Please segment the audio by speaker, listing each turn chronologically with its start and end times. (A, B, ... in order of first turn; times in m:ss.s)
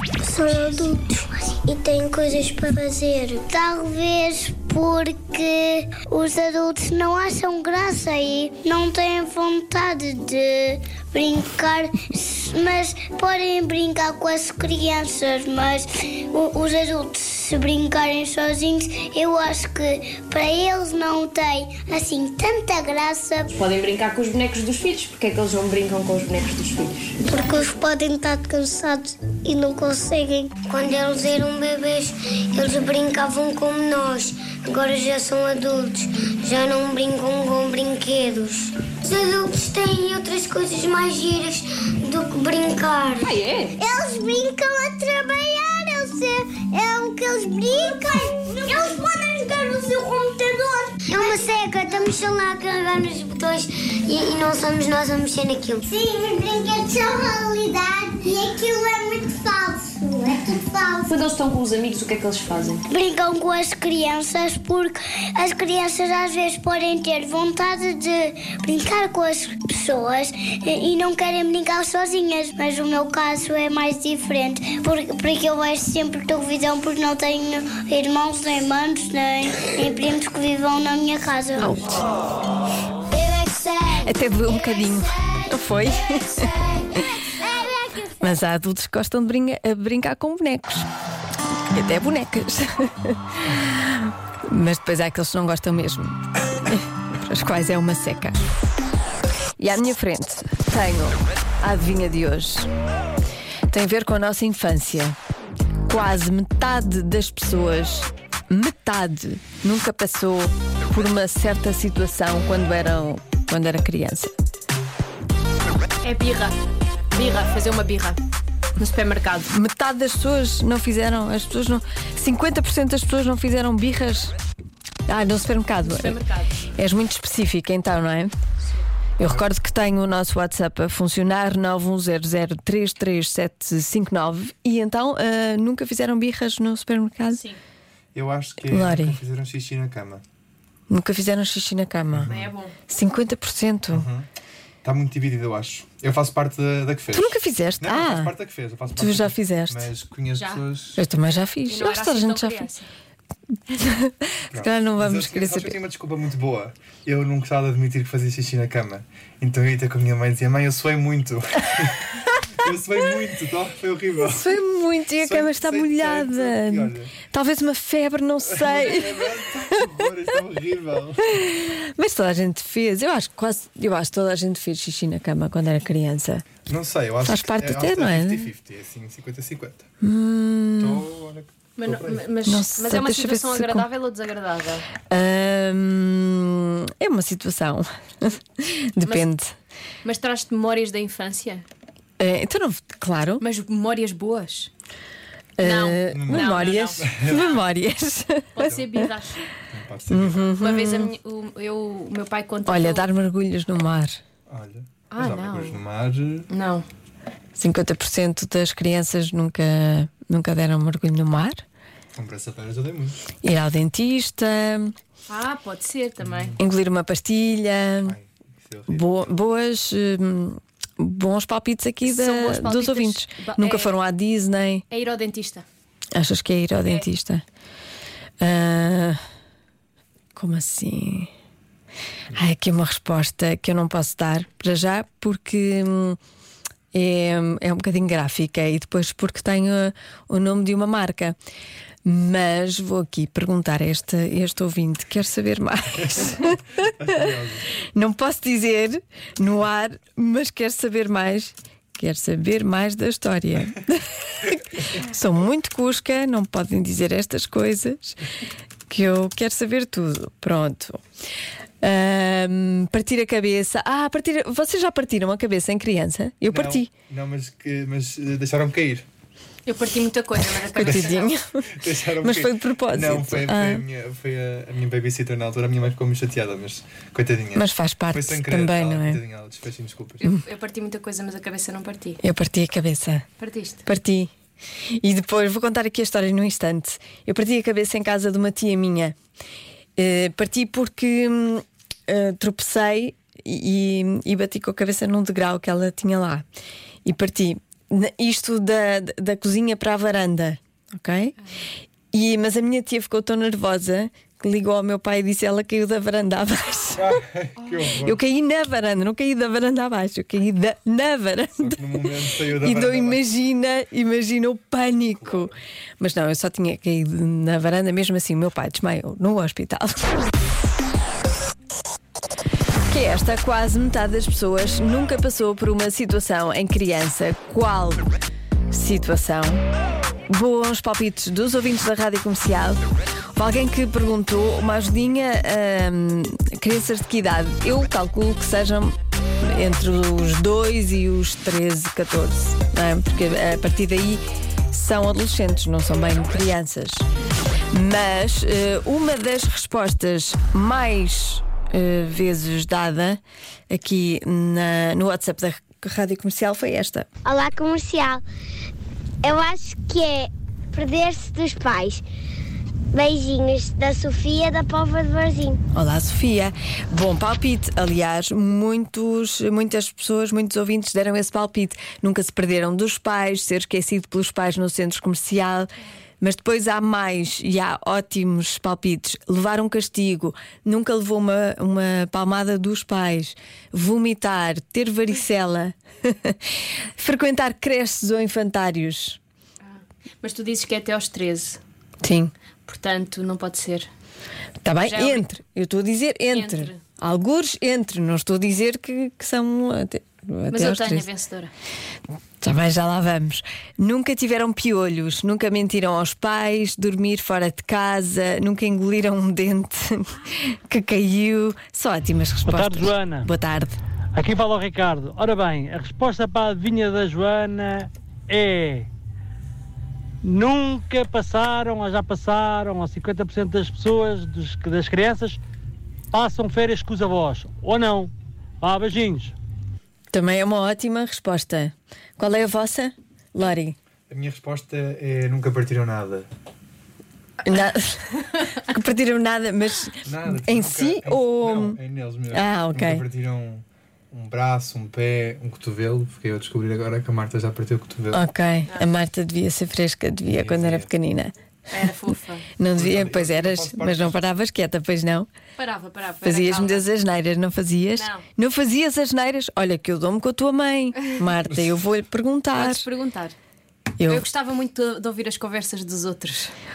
0:00.2-0:23.5 A
0:23.6-0:27.2 B
0:27.2-1:01.1 A
0:43.3-0:43.7 B
1:01.1-1:02.8 B
1:02.9-1:21.8 A
1:21.6-1:22.0 C
1:23.1-1:25.0 A
1:24.0-1:26.5 C
1:26.4-1:28.3 A
1:28.2-1:30.8 C
1:31.7-1:38.4 C
1:39.6-1:42.7 C
1:43.7-1:45.2 C
1:45.9-1:54.3 C
1:56.0-1:56.6 B
1:57.1-1:58.2 B
1:58.8-1:59.5 B
1:59.5-2:04.3 C
2:05.1-2:06.2 C
2:05.8-2:06.6 B
2:06.8-2:08.3 C
2:09.2-2:17.4 C
2:17.3-2:17.6 B
2:18.1-2:20.2 D
2:18.6-2:19.2 C
2:20.9-2:22.3 C
2:22.1-2:22.5 D
2:22.3-2:22.7 B
2:22.9-2:24.1 C
2:23.9-2:24.2 D
2:24.8-2:31.0 D
2:27.1-2:28.3 C
2:29.0-2:29.9 C
2:30.3-2:30.6 B
2:31.0-2:32.7 C
2:31.7-2:32.9 B
2:33.7-2:35.8 C
2:34.5-2:44.5 D
2:44.2-2:49.5 C
2:45.2-2:47.1 D
2:48.5-2:51.2 D
2:51.3-2:56.5 C
2:56.6-2:59.9 D
2:57.2-2:58.5 C
3:00.0-3:01.0 C
3:00.8-3:02.3 D
3:01.8-3:04.8 B
3:02.4-3:03.9 C
3:05.1-3:09.5 C
3:09.0-3:09.3 B
3:10.0-3:11.6 B
3:12.2-3:13.4 C
3:13.4-3:14.7 B
3:15.6-3:19.0 C
3:15.6-3:17.6 B
3:16.1-3:17.6 D
3:18.5-3:19.5 B
3:19.7-3:20.6 D
3:20.1-3:21.1 C
3:20.6-3:23.1 B
3:22.6-3:24.2 C
3:24.5-3:26.5 D
3:25.1-3:25.8 B
3:26.5-3:26.8 B
3:27.6-3:31.6 C
3:32.1-3:33.2 D
3:33.4-3:34.9 C
3:35.3-3:36.5 B
3:36.2-3:36.6 D
3:36.6-3:38.2 C
3:38.0-3:39.2 D
3:38.9-3:44.8 C
3:42.0-3:44.0 B
3:44.9-3:45.6 B
3:46.1-3:47.4 C
3:48.4-3:49.2 C
3:50.4-3:51.3 C
3:52.3-3:56.2 C
3:56.9-4:01.4 C
4:02.0-4:06.6 C
4:06.8-4:07.6 D
4:07.8-4:18.2 C
4:18.9-4:21.0 C
4:21.8-4:26.9 C
4:26.4-4:29.0 D
4:29.6-4:31.3 B
4:30.8-4:31.2 D
4:30.8-4:31.6 C
4:31.8-4:40.2 D
4:32.2-4:33.8 C
4:37.5-4:39.2 C
4:40.2-4:42.2 B
4:42.2-4:43.2 C
4:43.4-4:43.8 B
4:43.8-4:44.3 C
4:45.0-4:49.1 C
4:50.0-4:56.4 C
4:57.0-5:01.4 C
5:02.1-5:07.2 C
5:07.0-5:08.2 D
5:08.0-5:20.2 C
5:11.6-5:13.2 D
5:22.9-5:28.0 C
5:28.7-5:29.6 C
5:30.3-5:32.8 C
5:33.3-5:47.0 C
5:47.7-5:57.1 C
5:57.2-5:58.2 A
5:59.2-6:02.0 A
6:02.9-6:05.6 A
6:05.7-6:15.7 C
6:16.2-6:26.4 C
6:27.0-6:29.2 C
6:29.6-6:31.6 B
6:32.0-6:32.3 C
6:32.6-6:33.9 B
6:34.6-6:41.1 C
6:34.8-6:35.3 B
6:36.3-6:36.8 B
6:40.5-6:41.5 B
6:42.4-6:53.8 C
6:52.5-6:53.2 E
6:54.2-6:58.8 E
7:00.2-7:05.4 E
7:06.1-7:08.1 E
7:08.6-7:09.3 E
7:10.1-7:13.8 C
7:14.1-7:16.3 D
7:17.4-7:21.8 C
7:20.0-7:28.2 D
7:22.3-7:23.0 C
7:28.1-7:31.3 C
7:30.3-7:30.9 D
7:31.7-7:32.4 B
7:32.6-7:35.3 C
7:32.7-7:34.2 D
7:35.6-7:36.8 B
7:36.2-7:42.9 C
7:37.9-7:38.2 B
7:42.5-7:43.4 B
7:44.0-7:44.2 C
7:44.0-7:46.5 B